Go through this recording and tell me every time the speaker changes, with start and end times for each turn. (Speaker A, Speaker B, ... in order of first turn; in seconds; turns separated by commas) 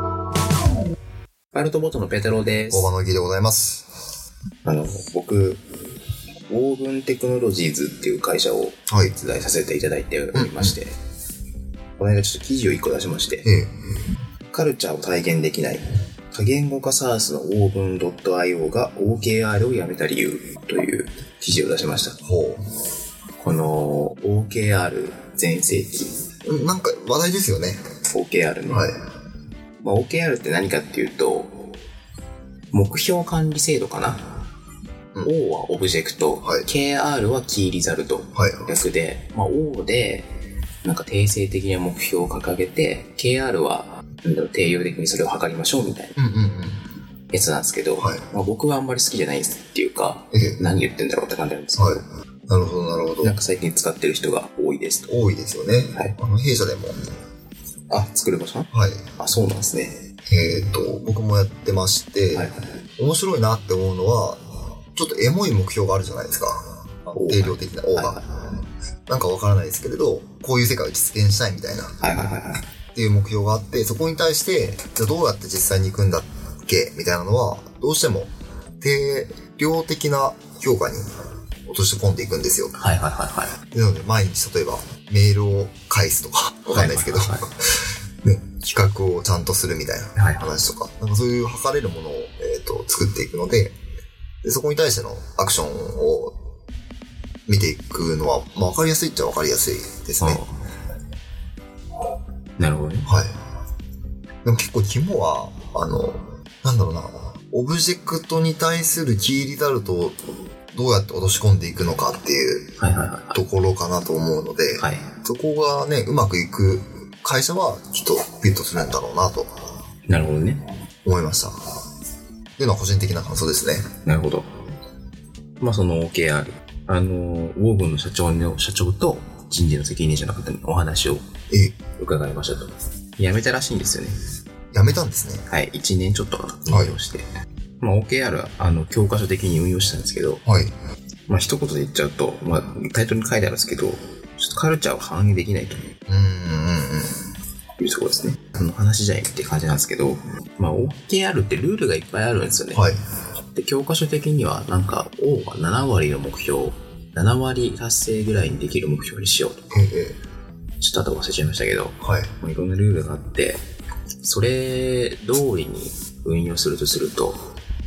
Speaker A: 1.5-2.9, Speaker B: 2.7-3.9, Speaker A: 4.6-5.6, Speaker A: 6.5-10.9, Speaker B: 8.9-9.1, Speaker B: 10.3-10.7, Speaker A: 12.0-13.5, Speaker B: 13.4-13.7, Speaker A: 14.5-22.2, Speaker B: 22.2-22.6, Speaker A: 23.4-26.2, Speaker B: 26.4-27.8, Speaker A: 28.1-28.9, Speaker B: 28.7-28.9, Speaker A: 29.8-31.7, Speaker A: 32.7-34.3, Speaker A: 35.2-40.3, Speaker B: 38.4-38.7, Speaker A: 40.8-46.2, Speaker B: 46.2-46.8, Speaker A: 47.3-52.0, Speaker B: 50.3-50.6, Speaker B: 51.8-53.3, Speaker A: 53.2-55.1, Speaker B: 55.1-57.0, Speaker A: 57.9-60.0, Speaker B: 58.7-59.0, Speaker B: 60.3-64.4, Speaker B: 64.9-68.2, Speaker A: 67.2-68.2, Speaker B: 69.1-71.9, Speaker A: 72.0-72.7, Speaker B: 72.9-78.3, Speaker B: 78.8-81.0, Speaker B: 81.7-82.7, Speaker A: 82.7-83.5, Speaker B: 83.7-87.6, Speaker A: 86.7-87.5, Speaker B: 88.2-93.7, Speaker A: 90.2-90.6, Speaker B: 94.4-96.3, Speaker B: 97.5-100.4, Speaker A: 100.2-100.5, Speaker A: 102.6-103.1, Speaker B: 103.1-103.3, Speaker B: 104.4-110.2, Speaker B: 110.7-112.7, Speaker A: 112.8-113.4, Speaker B: 113.3-119.5, Speaker A: 114.8-115.1, Speaker A: 120.1-120.6, Speaker B: 121.0-121.5, Speaker B: 122.6-123.9, Speaker A: 124.0-124.5, Speaker A: 125.6-131.2, Speaker A: 132.0-134.1, Speaker B: 134.7-135.4, Speaker A: 135.5-137.2, Speaker B: 136.7-136.9, Speaker A: 137.8-140.4, Speaker B: 140.4-140.7, Speaker A: 141.3-145.8, Speaker B: 146.1-147.2, Speaker A: 147.8-152.9, Speaker A: 153.5-159.7, Speaker B: 159.7-160.2, Speaker A: 160.8-163.6, Speaker B: 162.0-162.3, Speaker A: 164.2-167.5